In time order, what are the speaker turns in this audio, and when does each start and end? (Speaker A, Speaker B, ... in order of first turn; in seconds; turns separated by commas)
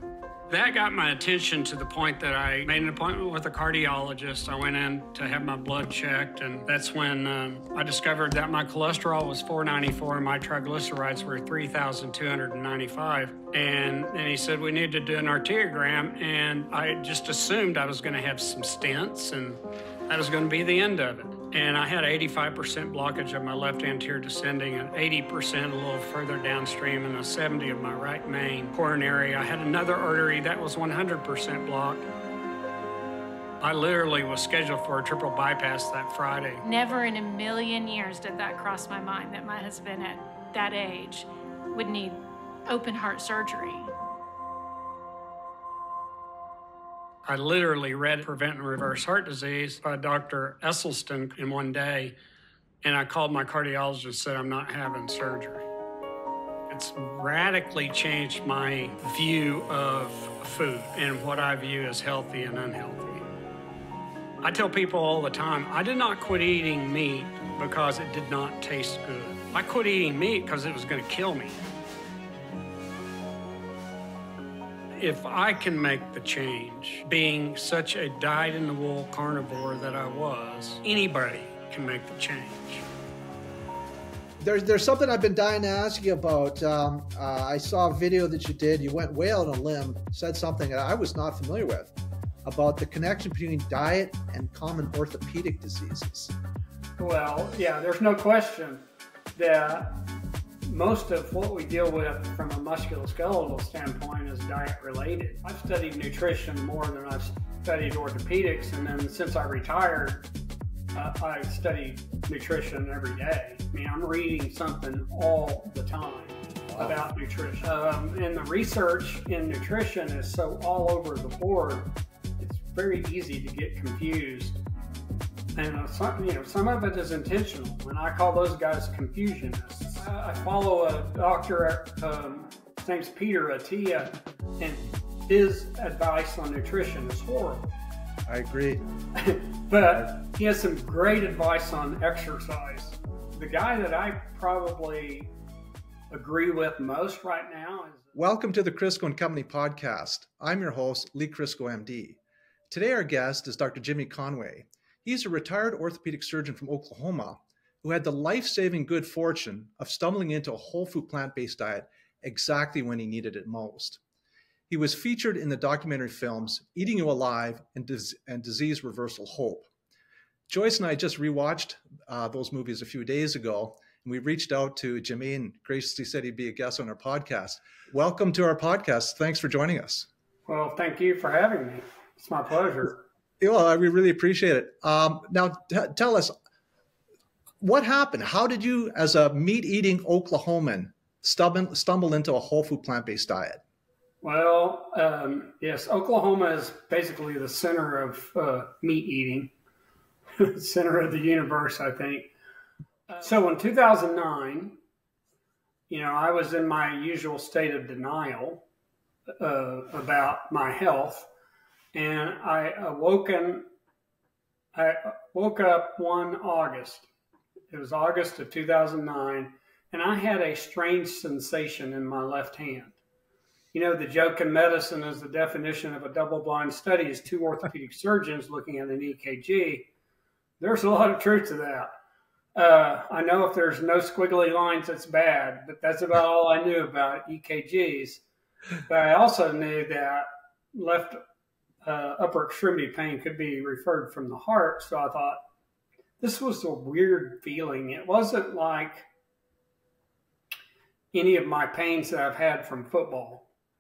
Speaker A: 0.5-32.0, Speaker A: 33.6-36.6, Speaker B: 36.6-43.9, Speaker A: 47.2-52.1, Speaker A: 52.8-55.6, Speaker A: 56.7-63.3, Speaker A: 64.4-71.6, Speaker A: 75.0-82.8, Speaker C: 84.4-91.9, Speaker C: 92.4-96.3, Speaker A: 97.0-98.8, Speaker A: 99.3-100.0, Speaker A: 100.7-110.2, Speaker A: 110.9-124.6, Speaker C: 116.7-117.0, Speaker A: 125.5-137.8, Speaker C: 138.3-138.8, Speaker A: 139.1-145.3, Speaker A: 146.1-148.1, Speaker C: 148.1-152.2, Speaker C: 152.7-164.0, Speaker C: 164.7-169.7, Speaker C: 170.5-180.1, Speaker A: 180.5-183.0, Speaker C: 183.4-186.3, Speaker C: 187.6-193.6, Speaker A: 194.2-199.5, Speaker A: 200.4-202.3, Speaker A: 203.1-204.8, Speaker A: 205.9-208.6, Speaker A: 209.4-211.3, Speaker A: 211.9-213.6, Speaker A: 214.7-217.1, Speaker A: 217.7-223.0, Speaker A: 223.7-229.9, Speaker A: 230.6-231.9, Speaker A: 232.5-238.2, Speaker A: 238.9-241.2, Speaker A: 241.8-245.4, Speaker A: 246.2-249.1, Speaker A: 251.1-253.5